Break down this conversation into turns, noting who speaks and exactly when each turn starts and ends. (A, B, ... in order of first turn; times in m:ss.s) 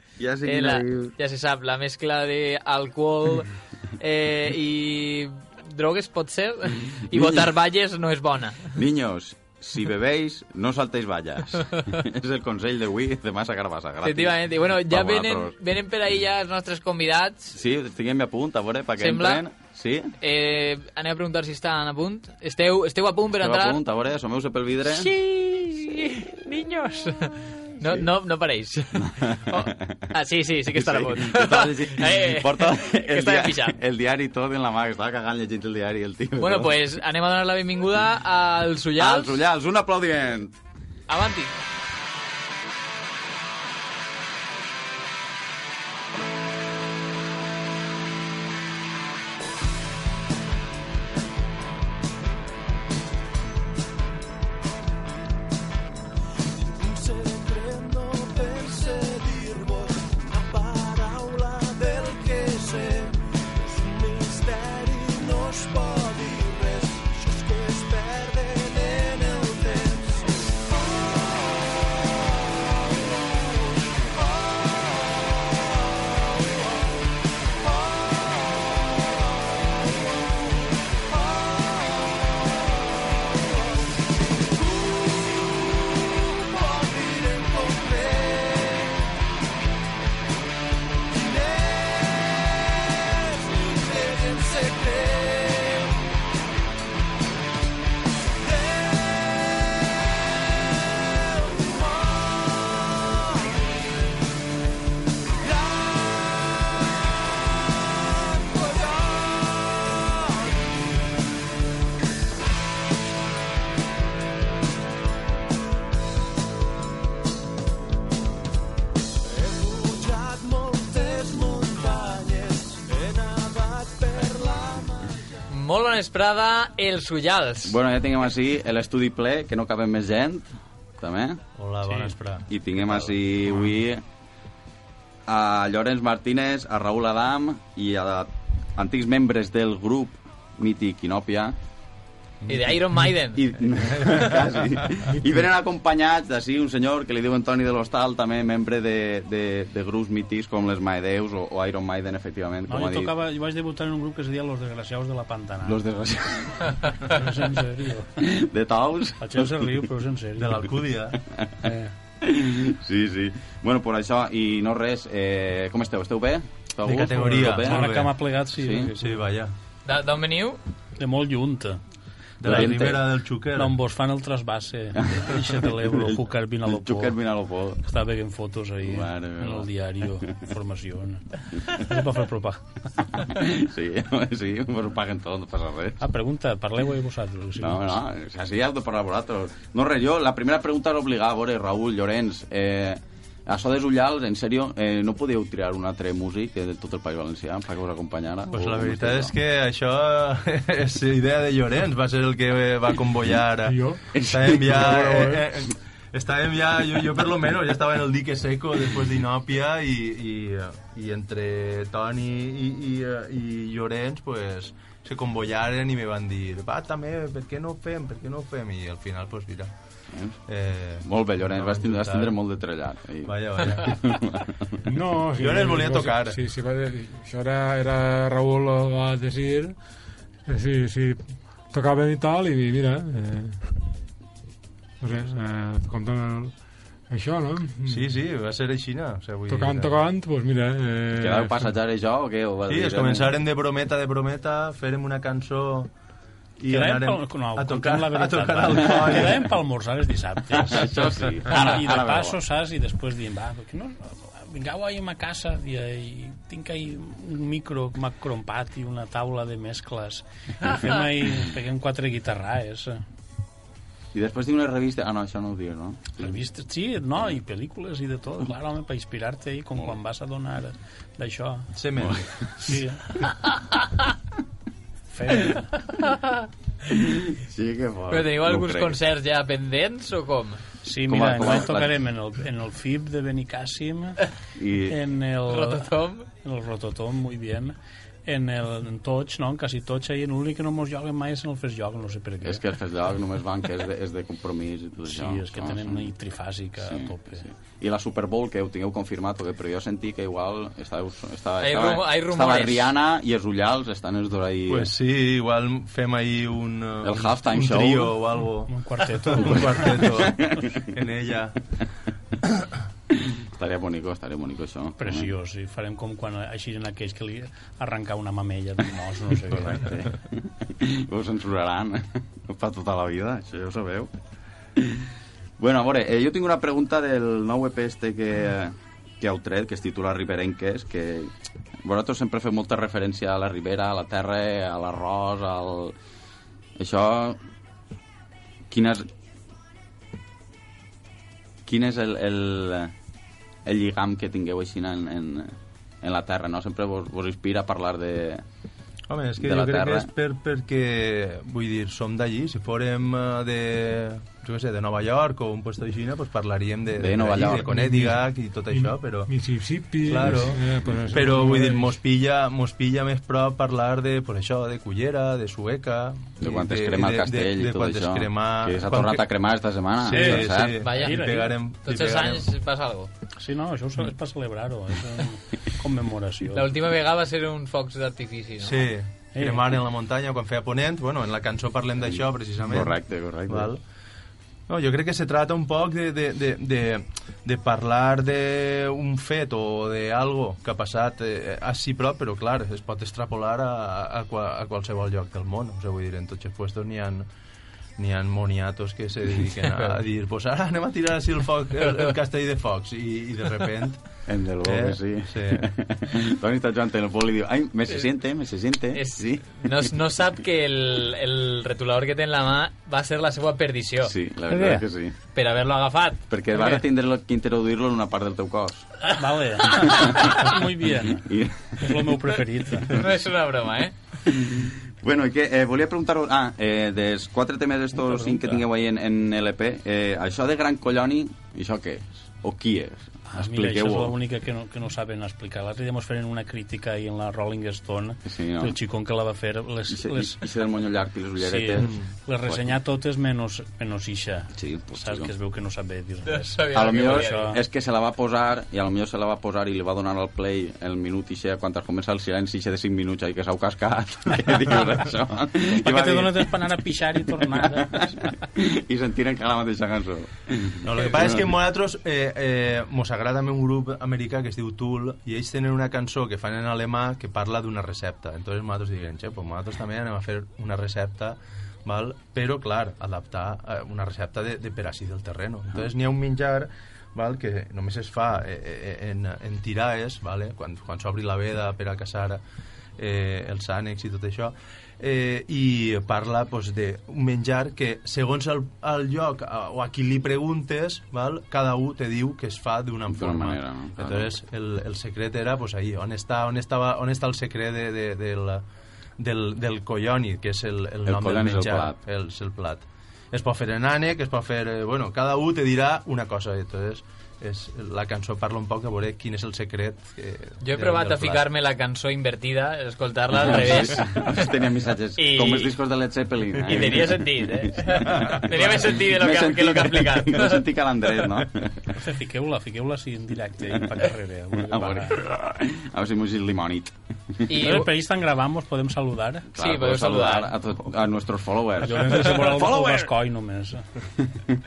0:00.2-0:01.1 A
0:00.4-0:08.8 B
0:07.1-0:07.5 A
0:08.7-0:15.5 A
0:14.0-0:17.5 B
0:17.5-0:20.1 A
0:19.0-0:19.4 B
0:20.2-0:23.8 B
0:23.3-0:25.1 A
0:24.8-0:33.8 B
0:27.8-0:28.1 A
0:28.9-0:30.1 A
0:30.7-0:36.8 A
0:36.4-0:39.4 B
0:39.0-0:40.6 A
0:41.1-0:41.5 B
0:56.8-1:03.1 C
1:03.8-1:10.2 C
1:27.4-1:28.2 C
1:34.0-1:35.2 C
2:00.0-2:04.6 C
2:05.5-2:07.8 B
2:07.6-2:11.4 A
2:11.6-2:13.2 C
2:12.5-2:14.0 A
2:15.2-2:21.6 A
2:22.5-2:23.5 B
2:23.3-2:33.1 A
2:32.7-2:35.8 D
2:35.6-2:36.8 A
2:37.0-2:38.2 D
2:38.2-2:39.8 A
2:39.2-2:40.7 D
2:40.4-2:41.2 C
2:41.3-2:41.6 A
2:41.6-2:41.9 D
2:42.2-2:48.9 A
2:46.8-2:48.2 C
2:47.5-2:49.2 D
2:49.0-2:49.5 C
2:49.8-2:50.6 B
2:51.0-2:51.8 D
2:52.4-2:53.8 C
2:52.4-2:53.1 A
2:53.5-2:57.2 D
2:54.9-2:57.8 A
2:57.8-3:02.6 D
2:58.8-2:59.7 A
3:03.1-3:06.0 A
3:06.0-3:08.0 D
3:07.6-3:19.3 A
3:18.5-3:39.7 C
3:23.7-3:25.4 E
3:24.1-3:25.1 A
3:40.1-3:40.4 A
3:40.5-3:42.4 C
3:41.0-3:44.7 A
3:43.2-3:44.2 C
3:44.8-3:49.7 E
3:45.4-3:46.4 C
3:50.5-3:51.2 E
3:51.7-3:53.6 E
3:55.0-3:56.5 E
3:57.1-3:58.1 E
3:57.9-4:00.1 C
3:59.5-4:01.7 E
4:01.1-4:03.4 A
4:02.7-4:05.9 C
4:06.6-4:09.5 C
4:06.7-4:23.0 D
4:10.5-4:12.4 A
4:24.1-4:26.3 A
4:26.2-4:31.7 D
4:31.7-4:32.3 C
4:32.6-4:33.0 D
4:35.1-4:35.7 D
4:36.9-4:39.0 A
4:38.1-4:40.6 B
4:40.8-4:44.2 D
4:41.0-4:42.0 A
4:44.6-4:45.0 A
4:44.9-4:52.6 D
4:45.5-4:46.3 B
4:52.4-4:56.1 A
4:55.1-4:57.4 D
4:56.8-5:04.9 A
5:01.6-5:02.9 B
5:04.7-5:11.6 C
5:07.0-5:08.2 A
5:08.7-5:10.0 D
5:09.4-5:10.8 A
5:13.1-5:15.3 A
5:15.0-5:20.0 D
5:19.5-5:24.1 A
5:24.8-5:31.3 A
5:31.8-5:36.0 A
5:36.8-5:37.4 A
5:38.7-5:39.1 A
5:41.6-5:42.9 A
5:43.6-5:48.4 A
5:49.1-5:59.3 C
5:49.4-5:50.1 A
5:57.0-5:57.9 A
5:57.7-6:02.0 E
6:00.0-6:09.3 C
6:06.4-6:10.8 A
6:10.0-6:12.4 C
6:10.1-6:11.5 D
6:10.8-6:13.1 B
6:13.4-6:16.7 D
6:16.5-6:18.9 B
6:18.6-6:23.8 C
6:19.3-6:19.8 D
6:22.0-6:23.7 A
6:24.7-6:37.2 C
6:38.0-6:44.0 C
6:41.8-6:42.2 B
6:44.2-6:49.8 A
6:44.6-6:45.7 C
6:48.9-6:54.1 B
6:54.0-6:55.2 A
6:54.5-6:54.8 D
6:55.3-6:56.2 B
6:56.3-6:58.9 A
6:59.0-7:02.9 D
6:59.7-7:02.2 A
7:02.9-7:03.9 B
7:04.2-7:14.2 A
7:08.0-7:08.6 D
7:13.3-7:20.4 D
7:18.2-7:18.8 A
7:19.9-7:22.8 A
7:21.4-7:27.6 D
7:24.5-7:25.3 A
7:26.2-7:27.5 B
7:26.7-7:36.6 A
7:35.7-7:38.3 D
7:37.4-7:41.6 A
7:40.8-8:02.4 C
8:03.0-8:18.6 C
8:13.1-8:14.4 A
8:19.2-8:31.4 C
8:21.0-8:22.0 A
8:30.6-8:34.5 B
8:33.3-8:41.9 A
8:35.2-8:35.7 B
8:36.6-8:40.7 B
8:41.9-8:45.2 D
8:44.6-8:47.6 A
8:47.5-8:47.9 B
8:47.5-8:49.5 D
8:49.5-8:53.1 A
8:49.6-8:50.5 B
8:51.8-8:53.8 D